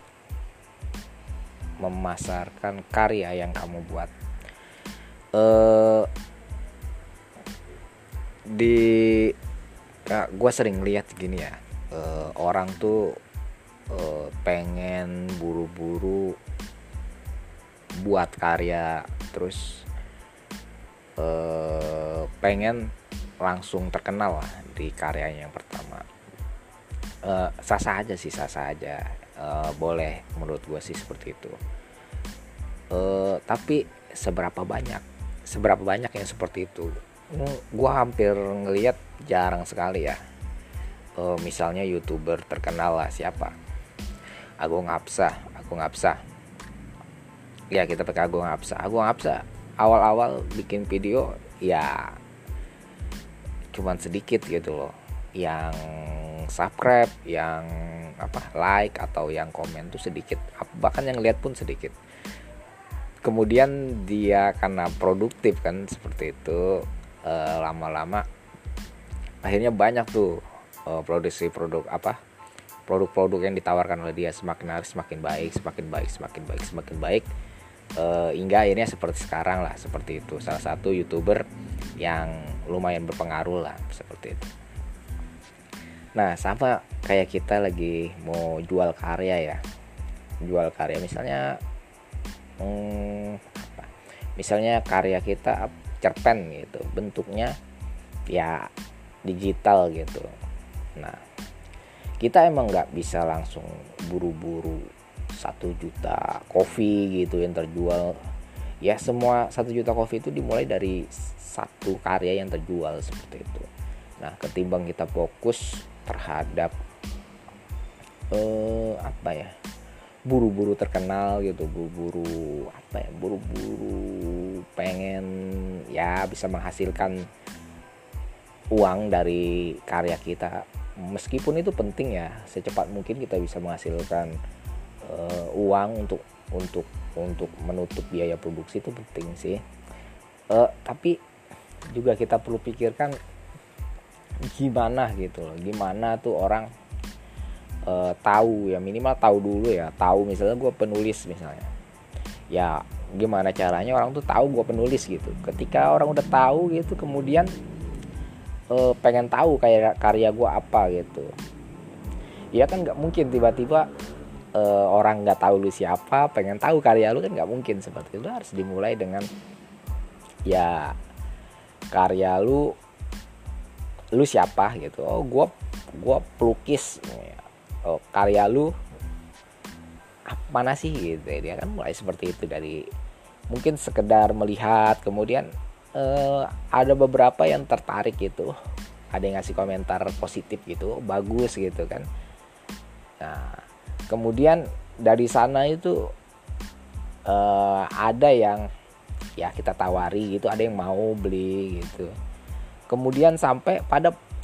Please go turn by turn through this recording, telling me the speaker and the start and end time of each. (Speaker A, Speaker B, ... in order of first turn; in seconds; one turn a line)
Speaker A: 1.8-4.1
Speaker A: 5.3-6.1
Speaker A: 8.5-9.3
Speaker A: 10.1-13.2
Speaker A: 13.9-16.4
Speaker A: 18.0-19.8
Speaker A: 21.2-22.9
Speaker A: 23.4-26.1
Speaker A: 27.2-31.6
Speaker A: 32.9-40.2
Speaker A: 41.2-43.5
Speaker A: 44.6-46.2
Speaker A: 47.7-52.1
Speaker A: 53.7-61.9
Speaker A: 63.2-68.2
Speaker A: 69.4-72.2
Speaker A: 72.9-77.2
Speaker A: 78.0-81.4
Speaker A: 82.0-84.5
Speaker A: 86.2-89.6
Speaker A: 90.4-91.6
Speaker A: 92.6-97.5
Speaker A: 98.3-98.7
Speaker A: 99.2-100.3
Speaker A: 101.0-101.2
Speaker A: 102.2-108.2
Speaker A: 108.8-113.7
Speaker A: 114.2-116.7
Speaker A: 118.3-119.5
Speaker A: 120.2-127.3
Speaker A: 128.7-134.3
Speaker A: 135.0-139.6
Speaker A: 140.5-141.2
Speaker A: 141.9-143.2
Speaker A: 144.4-146.7
Speaker A: 147.8-151.7
Speaker A: 152.5-157.5
Speaker A: 158.7-161.3
Speaker A: 162.5-163.9
Speaker A: 164.6-169.3
Speaker A: 170.5-170.9
Speaker A: 171.9-172.7
Speaker A: 174.1-178.7
Speaker A: 180.3-182.8
Speaker A: 183.5-188.5
Speaker A: 189.1-192.1
Speaker A: 193.2-196.1
Speaker A: 197.2-198.7
Speaker A: 199.4-202.1
Speaker A: 202.9-204.1